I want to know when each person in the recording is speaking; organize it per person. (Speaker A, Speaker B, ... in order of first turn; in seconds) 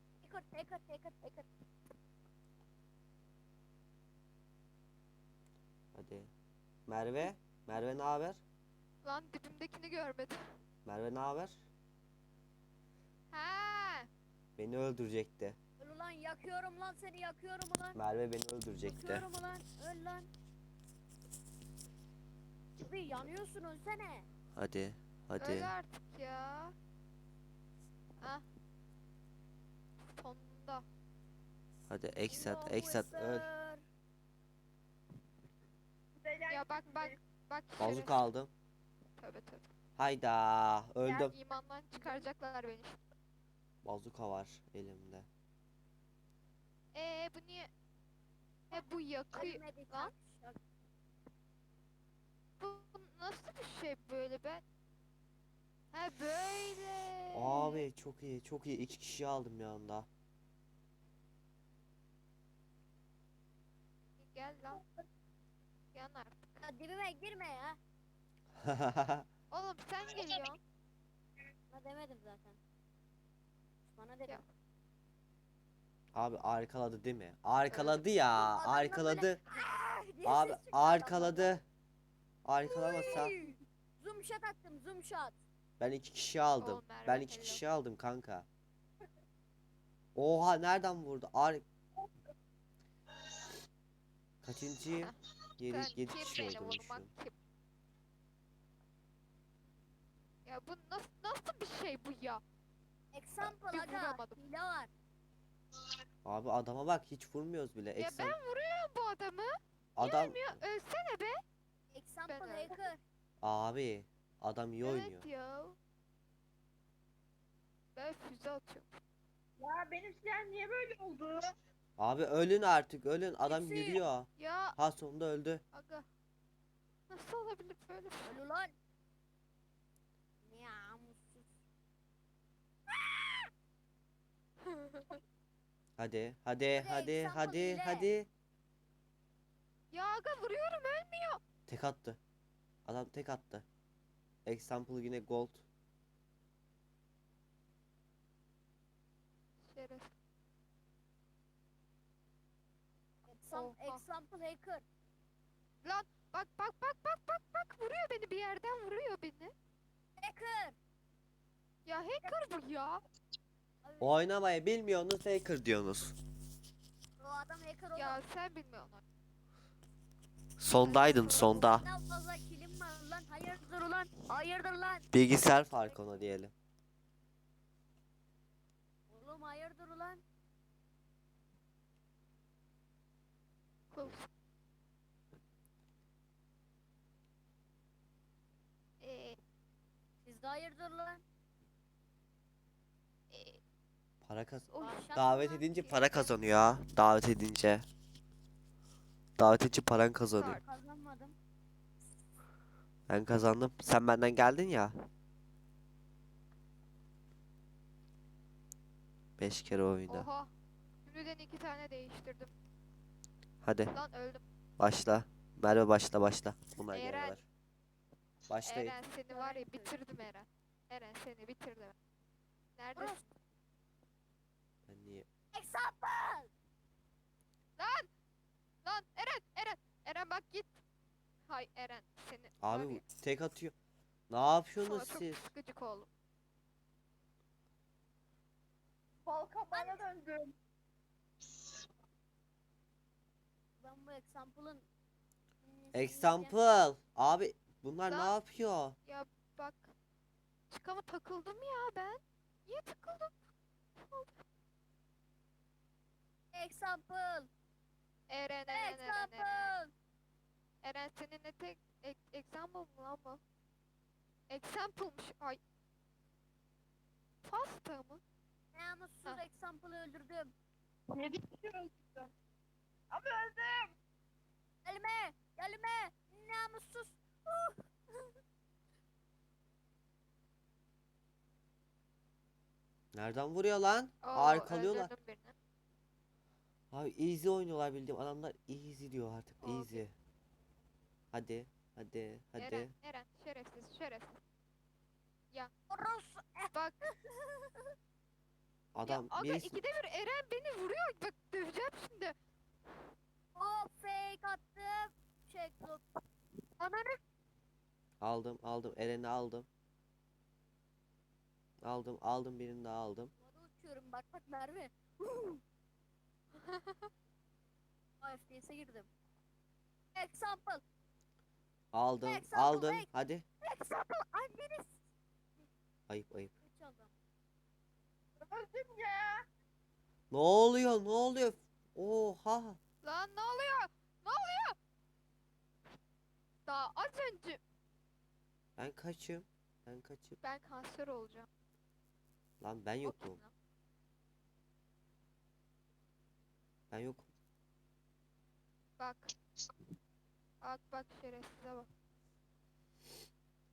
Speaker A: 0.2-1.5, 15.8-18.0, 18.9-20.3, 22.8-24.3, 32.3-33.8, 48.7-50.6, 66.6-67.8, 71.7-72.6, 73.9-74.4, 78.3-81.5, 82.6-85.4, 103.1-104.9, 111.9-113.0, 123.5-124.0, 128.2-128.7, 130.4-131.5, 132.9-133.5, 136.8-138.1, 153.3-154.8, 160.2-160.8, 163.8-164.1, 167.2-168.2, 171.1-175.1, 179.1-180.2, 190.2-191.2, 194.8-195.6, 200.6-201.3, 219.3-220.0, 222.9-223.2, 225.5-226.5, 239.7-240.0, 243.8-244.8, 245.6-246.5, 256.5-257.5, 258.7-259.9, 268.7-270.5, 274.8-278.3, 295.9-297.9, 303.5-306.0, 306.8-307.1, 313.4-315.6, 318.2-319.1, 320.1-320.8, 322.2-323.1, 323.6-325.0, 326.6-327.1
Speaker B: 5.9-6.3, 6.9-8.4, 10.8-11.6, 14.6-15.6, 17.9-19.3, 24.5-25.7, 31.9-33.5, 37.8-38.5, 40.0-41.3, 43.8-45.3, 57.3-60.1, 68.5-69.3, 76.1-79.4, 80.2-81.6, 82.4-83.3, 85.8-88.5, 90.1-91.6, 94.4-97.1, 106.2-108.4, 110.0-110.4, 113.4-115.2, 122.0-125.6, 136.0-138.3, 141.7-142.2, 142.8-143.6, 144.4-145.6, 164.0-166.2, 170.6-171.8, 175.1-176.5, 194.2-197.8, 199.4-200.6, 203.1-204.9, 209.4-210.3, 213.6-213.9, 214.8-217.4, 218.5-219.0, 224.9-225.3, 232.6-233.7, 234.3-235.5, 245.9-249.0, 283.1-285.1, 286.9-290.1, 291.3-292.9, 298.9-299.8, 308.2-309.7, 311.8-313.3, 321.9-323.4, 326.1-326.5, 330.3-332.8, 338.8-340.4, 342.6-343.4, 346.9-347.3
Speaker C: 9.0-10.4, 13.3-14.1, 25.4-26.7, 30.1-30.8, 36.5-38.2, 39.2-39.7, 41.1-43.0, 46.9-47.7, 48.7-50.1, 52.6-54.6, 55.9-57.8, 64.2-64.8, 65.9-66.6, 69.5-70.6, 77.7-78.0, 86.6-87.6, 95.7-97.3, 100.5-102.4, 103.5-104.4, 108.0-111.4, 112.3-112.8, 114.8-115.8, 118.0-118.9, 124.4-124.8, 125.7-126.0, 127.1-128.3, 134.6-135.2, 139.9-141.4, 149.6-150.1, 153.5-154.0, 155.8-159.5, 161.8-163.0, 167.9-169.0, 170.8-171.6, 183.9-184.3, 189.0-189.4, 193.3-193.6, 194.7-195.1, 195.7-196.3, 200.3-200.6, 210.1-210.5, 211.1-212.5, 213.9-214.4, 216.9-217.3, 218.6-221.9, 222.8-223.2, 227.8-228.1, 228.8-230.8, 231.5-233.0, 234.8-236.1, 249.1-249.9, 250.7-253.3, 254.0-254.3, 258.3-259.7, 260.8-263.4, 264.5-265.6, 267.4-268.2, 284.2-285.5, 289.6-290.0, 292.6-294.4, 299.0-302.3, 316.6-317.1, 333.0-334.8, 336.7-337.6, 340.4-341.5, 343.0-343.5, 349.0-349.3, 350.6-351.9
Speaker D: 36.2-37.2, 119.6-121.5, 239.2-240.5, 271.1-272.3, 273.1-273.9, 328.4-329.4